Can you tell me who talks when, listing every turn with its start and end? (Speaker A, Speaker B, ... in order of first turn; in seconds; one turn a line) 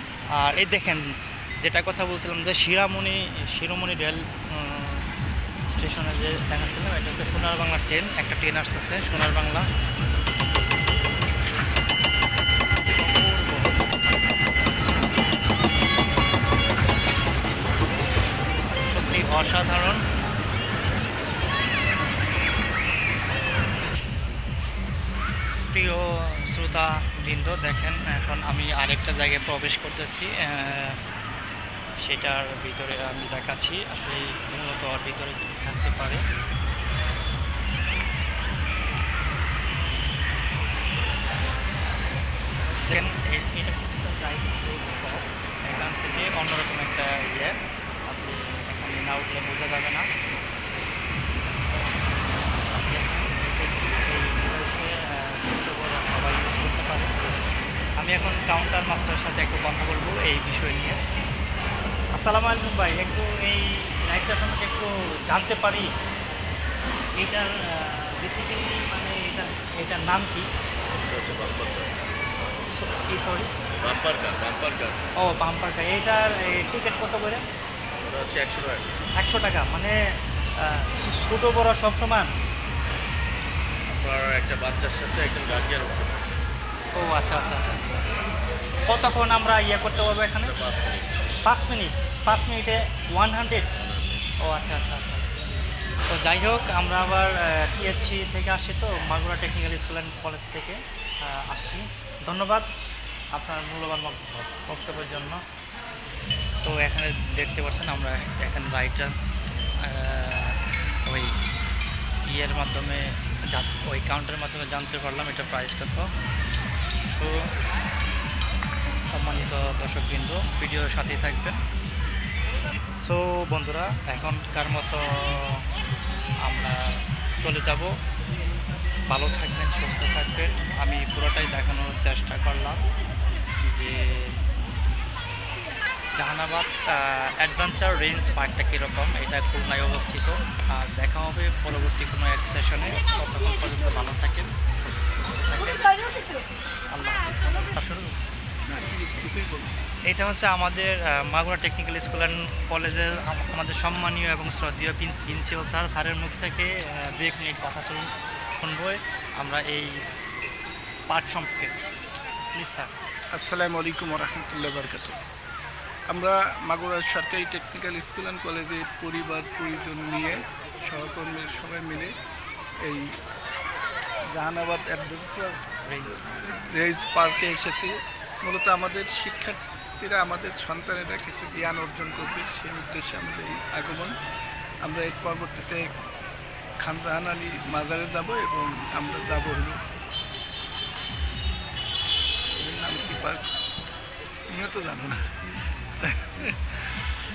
Speaker A: 0.3-5.1
Speaker A: 5.7-9.7
Speaker A: 12.9-14.8
Speaker A: 18.8-20.0
Speaker A: 25.7-31.0
Speaker A: 32.0-36.2
Speaker A: 42.9-50.1
Speaker A: 52.7-57.4
Speaker A: 58.0-61.0
Speaker A: 62.1-65.9
Speaker A: 67.2-70.5
Speaker B: 70.9-72.0
Speaker A: 72.7-73.5
Speaker B: 73.8-75.0
Speaker A: 75.2-77.4
Speaker B: 78.0-79.0
Speaker A: 79.2-80.0
Speaker A: 80.6-82.3
Speaker B: 83.9-86.2
Speaker A: 86.9-87.7
Speaker A: 88.9-90.5
Speaker B: 90.4-91.3
Speaker A: 91.4-93.7
Speaker A: 94.4-95.3
Speaker A: 96.1-102.7
Speaker A: 103.3-105.4
Speaker A: 106.6-109.1
Speaker A: 109.8-111.3
Speaker A: 112.3-116.1
Speaker A: 117.0-117.5
Speaker A: 119.1-121.6
Speaker A: 123.0-125.6
Speaker A: 126.4-127.9
Speaker A: 129.1-132.8
Speaker A: 133.6-134.3
Speaker A: 136.2-145.9
Speaker A: 146.9-148.1
Speaker C: 148.7-149.7
Speaker A: 150.1-160.0
Speaker A: 161.1-161.8
Speaker A: 162.5-162.9
Speaker C: 163.3-165.2
Speaker C: 166.1-172.1
Speaker C: 172.8-173.2
Speaker C: 174.3-184.1
Speaker A: 175.8-176.2
Speaker C: 184.8-185.9
Speaker C: 186.8-189.8
Speaker C: 192.6-193.4
Speaker C: 194.5-195.3
Speaker C: 196.0-196.9